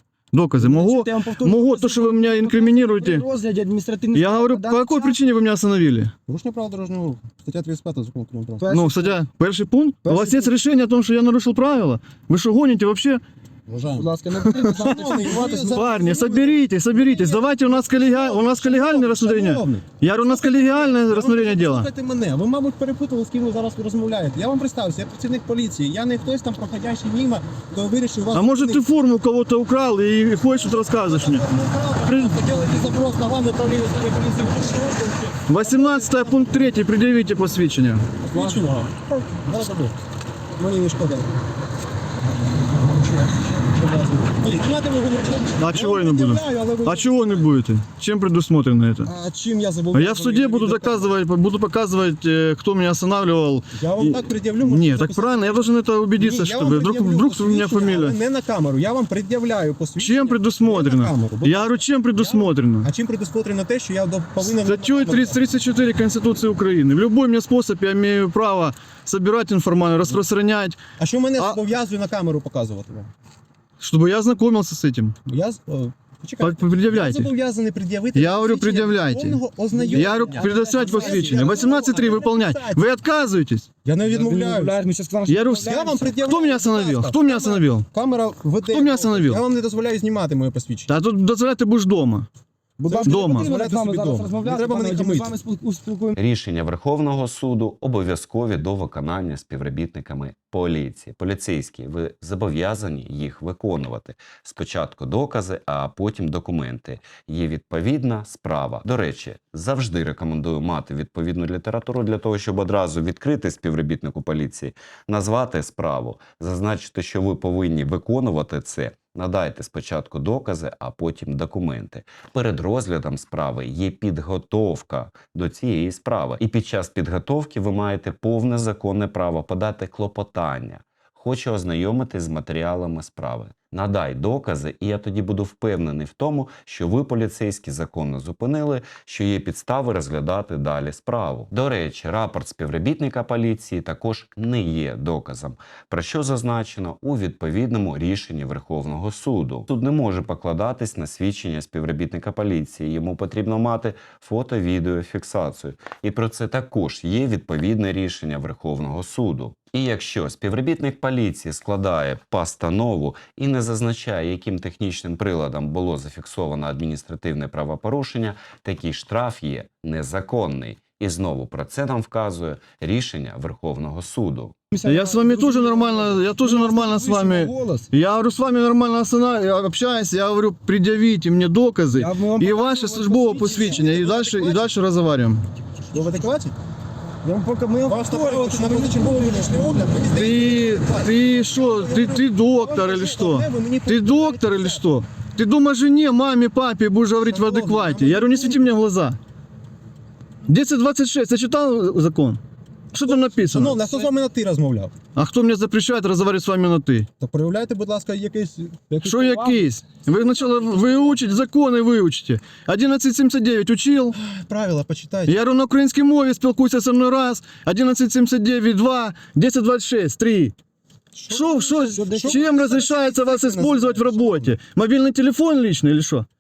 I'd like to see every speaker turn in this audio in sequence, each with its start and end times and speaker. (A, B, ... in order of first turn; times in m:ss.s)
0:00.3-0:03.3 A
0:00.6-0:05.2 B
0:04.1-0:06.1 A
0:06.3-0:08.7 C
0:08.6-0:09.2 B
0:08.7-0:13.2 A
0:10.0-0:10.5 B
0:13.7-0:28.8 C
0:13.9-0:15.8 B
0:15.7-0:21.9 A
0:28.3-0:31.4 A
0:30.7-0:36.6 C
0:32.0-0:32.3 A
0:35.5-0:38.1 A
0:38.3-0:40.0 C
0:40.6-0:41.3 C
0:43.0-0:47.5 C
0:45.6-0:49.1 A
0:49.0-0:51.1 C
0:49.9-0:58.2 A
0:53.8-1:05.4 C
1:00.0-1:02.9 A
1:04.5-1:10.8 A
1:11.0-1:13.1 C
1:13.8-1:15.1 A
1:15.3-1:22.8 C
1:16.4-1:17.3 A
1:18.2-1:19.4 A
1:19.9-1:23.7 A
1:20.0-1:21.4 B
1:23.8-1:24.8 C
1:24.1-1:26.2 B
1:25.3-1:25.7 A
1:25.6-1:30.9 C
1:26.2-1:27.9 A
1:28.7-1:29.4 A
1:30.9-1:32.3 A
1:32.8-1:35.4 C
1:32.8-1:36.2 B
1:33.0-1:33.5 A
1:36.2-2:54.6 D
2:54.7-2:57.9 B
2:54.9-3:05.4 A
3:01.9-3:03.9 B
3:03.4-3:04.7 C
3:05.8-3:06.6 C
3:05.9-3:06.2 B
3:07.2-3:09.5 B
3:07.9-3:14.9 C
3:10.1-3:19.2 A
3:17.2-3:18.7 C
3:20.5-3:22.4 A
3:22.9-3:23.8 A
3:23.1-3:24.9 C
3:25.2-3:27.1 A
3:27.2-3:29.6 C
3:29.0-3:34.2 A
3:34.1-3:35.4 C
3:35.3-3:40.5 A
3:41.1-3:44.6 C
3:41.3-3:46.3 A
3:41.9-3:42.5 B